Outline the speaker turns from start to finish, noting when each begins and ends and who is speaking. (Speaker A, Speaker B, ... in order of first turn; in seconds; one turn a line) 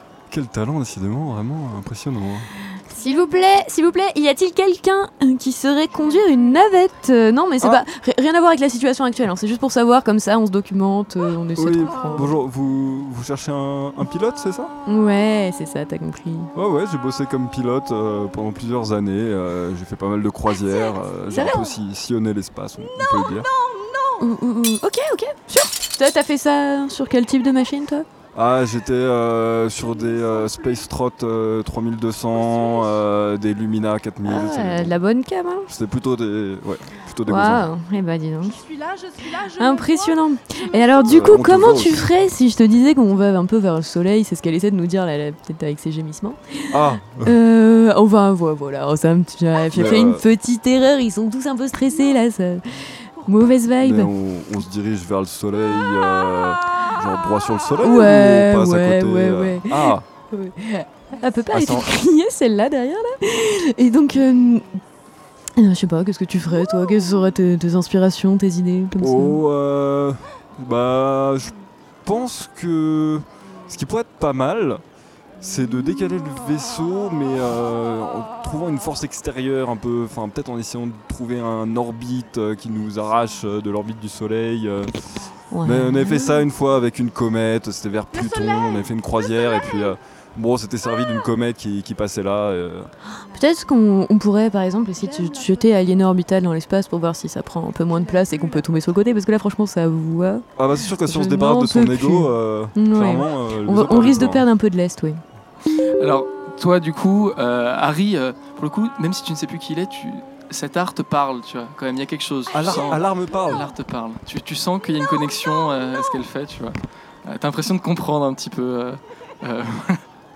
Speaker A: 0.3-2.5
Speaker B: 2.9-12.3
Speaker C: 3.0-3.3
Speaker C: 6.0-6.5
Speaker A: 11.6-14.7
Speaker B: 14.8-16.5
Speaker A: 16.5-23.5
Speaker C: 20.6-21.8
Speaker B: 21.3-21.7
Speaker C: 22.9-24.3
Speaker B: 24.2-28.1
Speaker A: 28.3-35.0
Speaker C: 30.0-30.9
Speaker C: 32.5-32.9
Speaker B: 34.2-35.7
Speaker A: 35.7-37.7
Speaker B: 37.2-38.6
Speaker C: 38.4-41.3
Speaker B: 39.6-54.1
Speaker A: 41.1-42.1
Speaker A: 46.7-47.3
Speaker A: 49.7-50.2
Speaker C: 53.2-53.5
Speaker A: 53.8-60.0
Speaker B: 57.8-64.7
Speaker A: 61.5-61.9
Speaker B: 65.6-69.4
Speaker A: 69.0-74.8
Speaker A: 75.4-85.0
Speaker B: 85.5-86.3
Speaker A: 85.6-92.9
Speaker C: 88.1-89.9
Speaker B: 93.2-105.2
Speaker C: 95.0-96.0
Speaker C: 97.8-98.7
Speaker A: 100.5-104.5
Speaker D: 106.0-120.0
Speaker A: 112.5-113.7